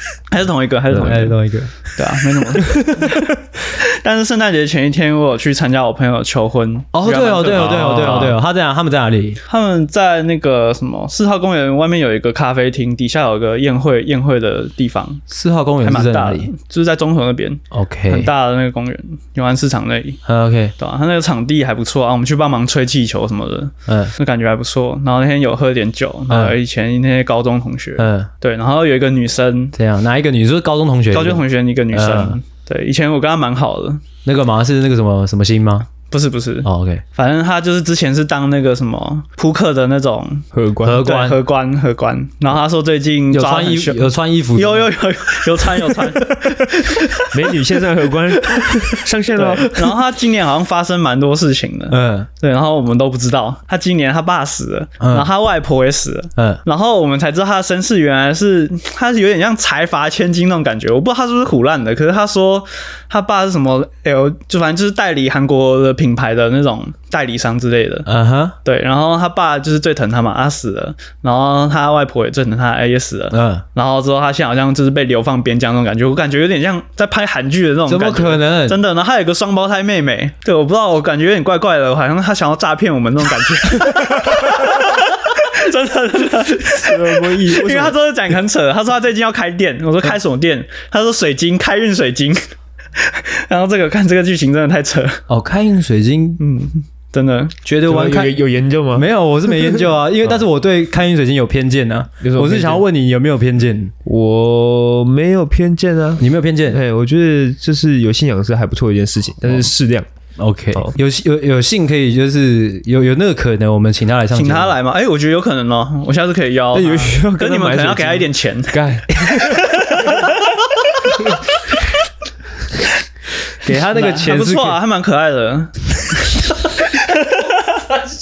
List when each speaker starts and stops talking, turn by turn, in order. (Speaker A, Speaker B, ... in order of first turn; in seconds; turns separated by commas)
Speaker A: 0.3-1.4, Speaker B: 0.9-1.7, Speaker A: 1.9-8.3, Speaker B: 6.9-9.4, Speaker C: 7.5-8.4, Speaker A: 9.4-15.2, Speaker B: 15.3-16.5, Speaker A: 15.8-20.2, Speaker B: 17.7-18.3, Speaker B: 20.2-20.7, Speaker A: 20.8-29.7, Speaker B: 23.9-24.1, Speaker B: 26.3-26.6, Speaker B: 28.0-28.3, Speaker B: 29.7-32.4, Speaker A: 31.1-34.0, Speaker B: 34.2-35.9, Speaker A: 36.1-40.5, Speaker B: 36.6-37.0, Speaker C: 40.5-41.1, Speaker B: 40.8-41.4, Speaker A: 41.0-46.4, Speaker B: 43.3-44.9, Speaker B: 46.2-47.3, Speaker C: 47.3-49.8, Speaker A: 49.4-68.1, Speaker B: 51.9-52.3, Speaker B: 55.0-55.3, Speaker B: 68.0-68.5, Speaker A: 68.6-92.4, Speaker B: 73.3-73.6, Speaker B: 77.9-78.8, Speaker C: 86.7-88.0, Speaker A: 93.0-95.2, Speaker B: 95.3-96.4, Speaker A: 96.4-97.5, Speaker B: 97.6-98.4, Speaker C: 97.8-99.9, Speaker B: 98.9-103.9, Speaker C: 102.2-102.8, Speaker C: 104.0-110.1, Speaker B: 106.2-106.8, Speaker B: 110.4-114.7, Speaker A: 114.3-121.0, Speaker C: 116.7-119.9, Speaker B: 123.6-124.8, Speaker A: 123.9-125.7, Speaker A: 126.9-127.8